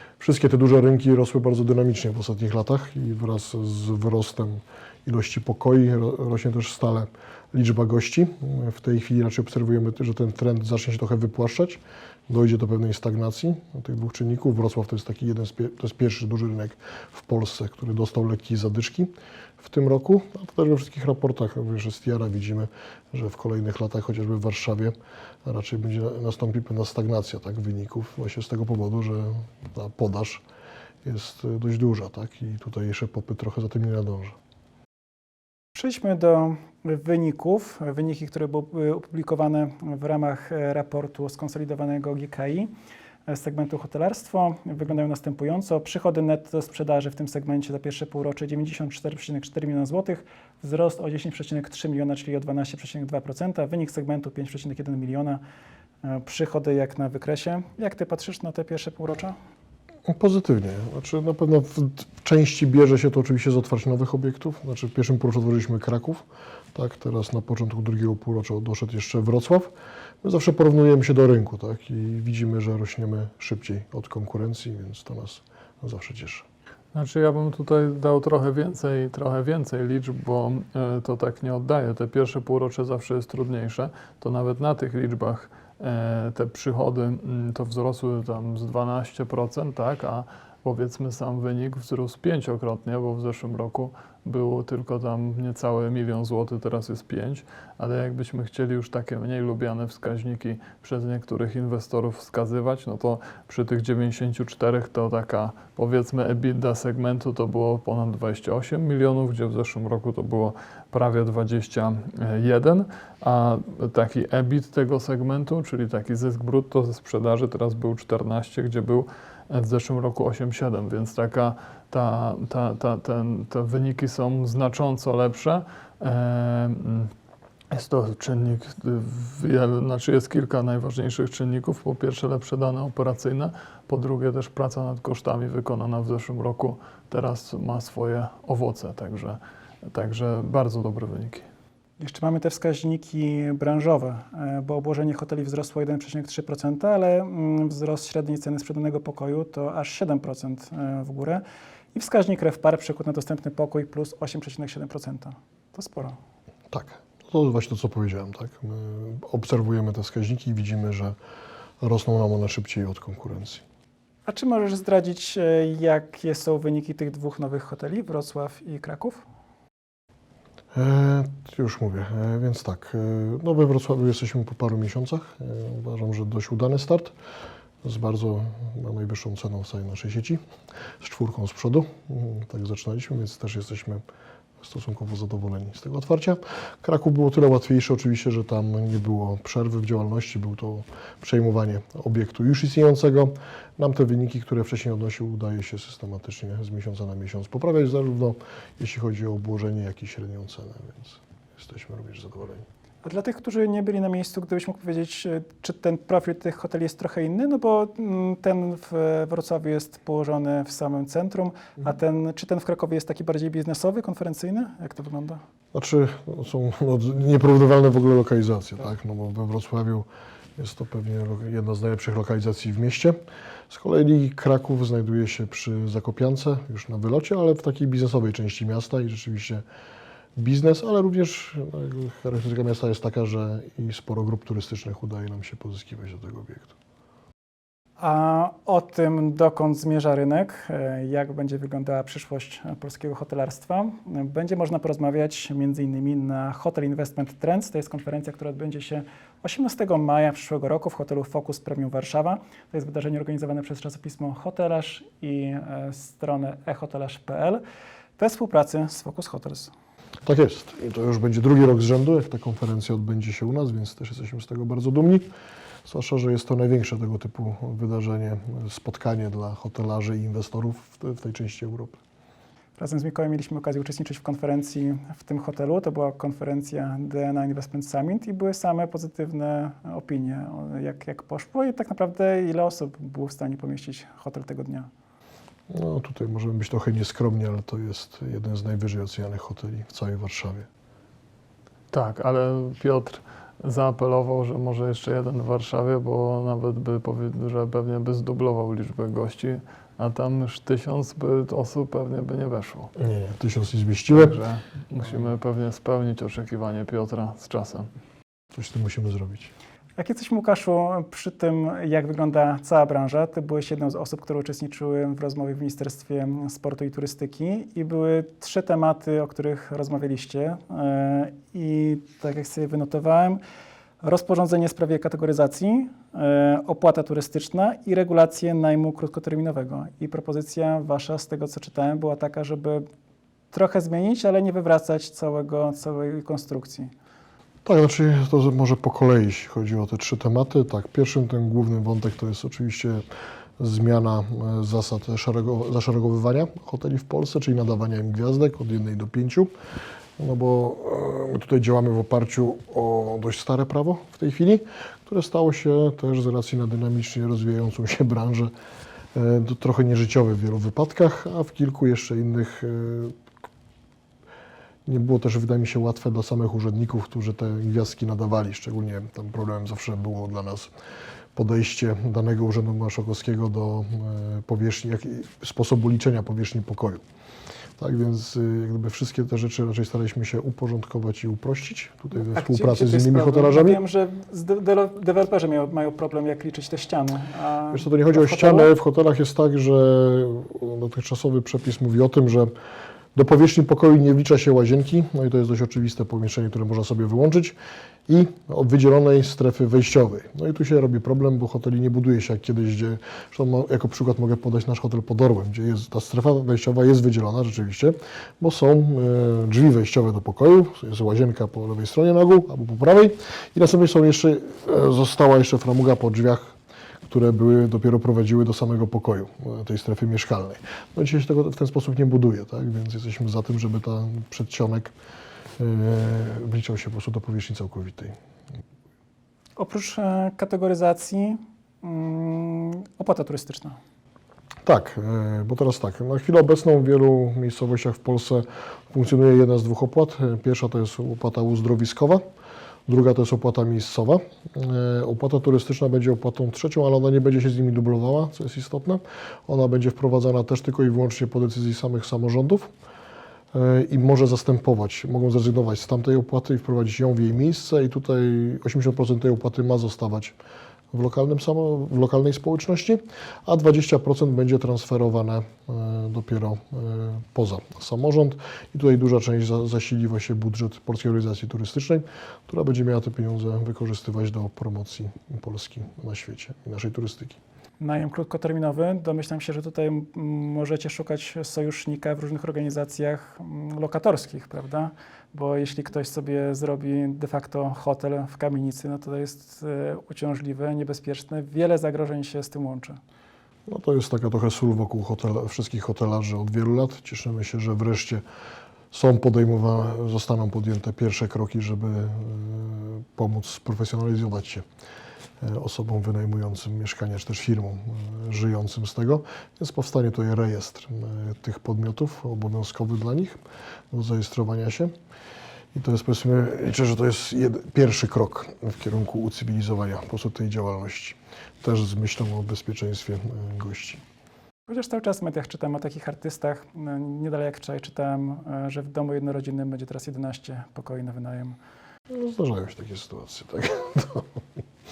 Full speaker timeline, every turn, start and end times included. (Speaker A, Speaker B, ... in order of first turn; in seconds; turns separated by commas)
Speaker A: 0.2-30.4, Speaker A: 31.1-34.4, Speaker B: 35.8-42.7, Speaker B: 43.3-55.4, Speaker B: 56.0-59.4, Speaker A: 60.1-76.5, Speaker C: 76.9-127.1, Speaker C: 127.7-141.5, Speaker B: 142.0-151.4, Speaker B: 151.9-156.2, Speaker A: 156.7-161.2, Speaker A: 161.8-163.6, Speaker B: 164.3-169.2, Speaker A: 170.7-177.1, Speaker A: 177.8-180.4, Speaker A: 181.0-184.0, Speaker A: 184.6-202.7, Speaker B: 203.0-215.4, Speaker A: 215.7-223.2, Speaker A: 223.7-229.6, Speaker A: 230.4-236.7, Speaker B: 238.0-257.6, Speaker B: 258.2-259.7, Speaker A: 260.2-265.3, Speaker A: 265.9-272.0, Speaker B: 272.8-284.9, Speaker A: 285.7-290.7, Speaker C: 291.9-302.9, Speaker A: 303.0-304.4, Speaker C: 304.1-307.9, Speaker A: 308.5-309.5, Speaker B: 310.0-323.4, Speaker B: 324.0-332.9, Speaker B: 333.5-336.9, Speaker A: 337.6-343.1, Speaker A: 343.6-349.5, Speaker A: 350.2-358.5, Speaker A: 359.1-363.2, Speaker A: 364.9-370.7, Speaker A: 371.3-377.0, Speaker A: 377.8-383.8, Speaker B: 382.1-388.7, Speaker A: 387.7-392.5, Speaker A: 393.1-397.6, Speaker A: 398.1-416.6, Speaker A: 417.1-424.9, Speaker A: 425.6-428.2, Speaker B: 429.6-433.8, Speaker A: 434.6-442.2, Speaker A: 442.9-452.7, Speaker A: 453.5-460.4, Speaker A: 460.9-477.4, Speaker B: 477.8-493.0, Speaker A: 493.7-498.2, Speaker A: 498.9-504.7, Speaker A: 505.4-513.4, Speaker A: 513.9-514.9, Speaker A: 515.7-524.0, Speaker B: 524.7-531.6, Speaker A: 532.1-534.4